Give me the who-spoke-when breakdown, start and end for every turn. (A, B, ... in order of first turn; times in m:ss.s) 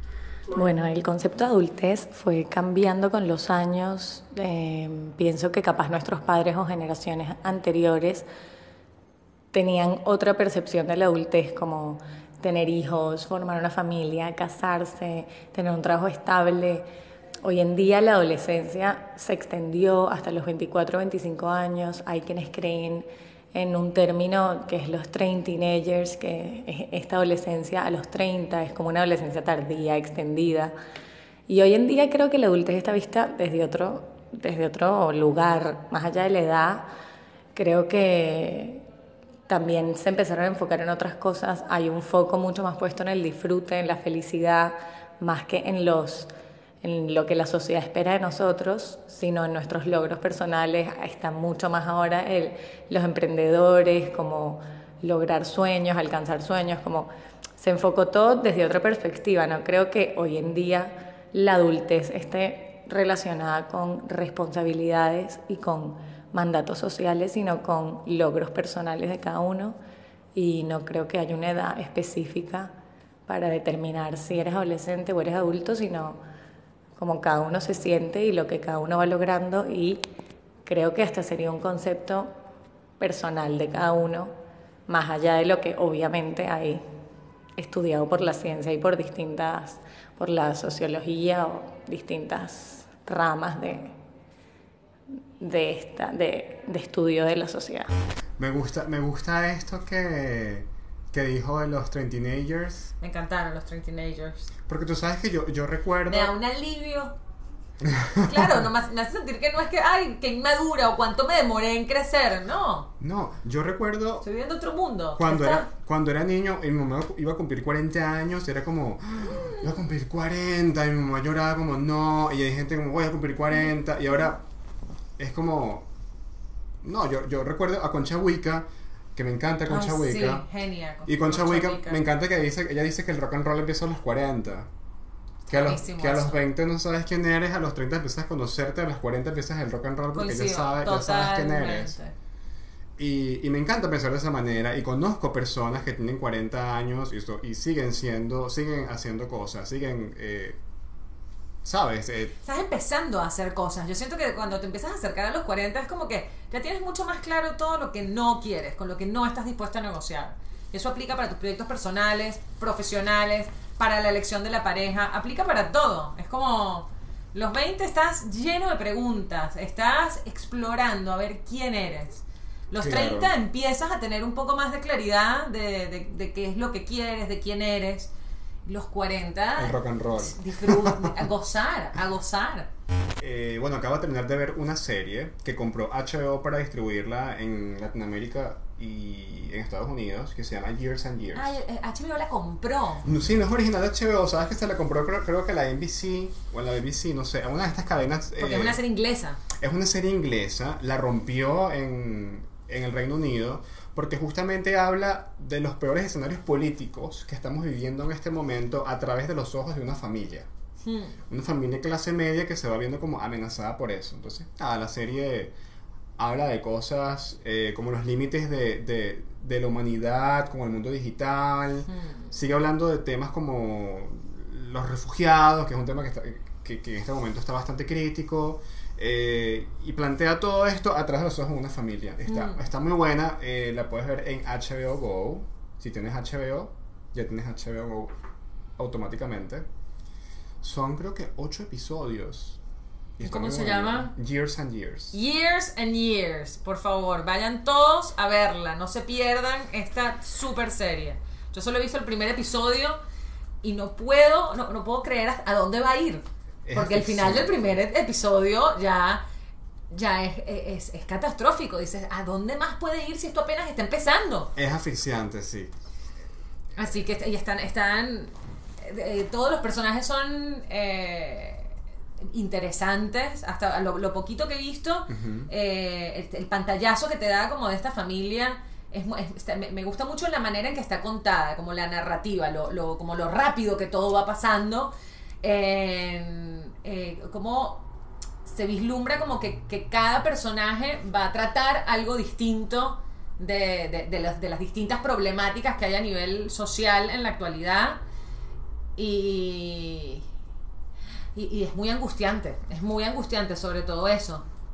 0:00.5-0:08.3 A
0:09.5-0:16.9 A
0:17.4-0:30.7 A
0:31.5-0:36.9 A
0:37.6-0:38.9 A
0:39.5-0:46.3 A
0:46.8-1:09.8 A
1:10.4-1:12.7 A
1:13.3-1:16.2 A
1:17.0-1:20.0 A
1:20.6-1:22.3 A
1:23.0-1:24.3 A
1:24.9-1:26.8 A
1:27.6-1:34.0 A
1:35.4-1:37.9 A
1:38.4-1:42.9 B
1:43.0-1:44.5 C
1:44.7-1:46.3 B
1:46.1-1:47.2 C
1:47.8-1:48.6 B
1:48.2-1:52.9 C
1:53.0-1:54.2 B
1:54.2-1:55.7 C
1:55.2-2:04.4 B
2:05.2-2:05.9 B
2:06.8-2:10.4 B
2:09.7-2:12.0 C
2:11.1-2:14.7 B
2:15.5-2:22.0 B
2:15.5-2:16.4 C
2:20.1-2:22.1 C
2:23.0-2:30.6 B
2:31.6-2:32.4 B
2:32.4-2:58.1 C
2:52.7-2:53.3 B
2:58.7-3:02.7 C
2:59.6-3:01.2 B
3:03.2-3:11.6 B
3:11.3-3:13.1 C
3:13.0-3:18.8 B
3:18.4-3:19.4 C
3:19.5-3:30.5 B
3:30.8-3:31.2 C
3:31.3-3:35.5 B
3:36.2-3:58.1 B
3:41.9-3:42.3 C
3:52.3-3:52.6 C
3:58.8-3:59.7 B
4:00.6-4:02.6 B
4:03.2-4:05.2 B
4:03.2-4:04.1 C
4:05.1-4:13.0 C
4:13.6-4:19.2 C
4:16.6-4:17.7 B
4:19.9-4:24.5 C
4:24.6-4:25.8 B
4:26.8-4:47.9 C
4:35.1-4:35.5 B
4:48.4-4:58.0 C
4:59.0-5:00.3 C
5:01.4-5:04.4 C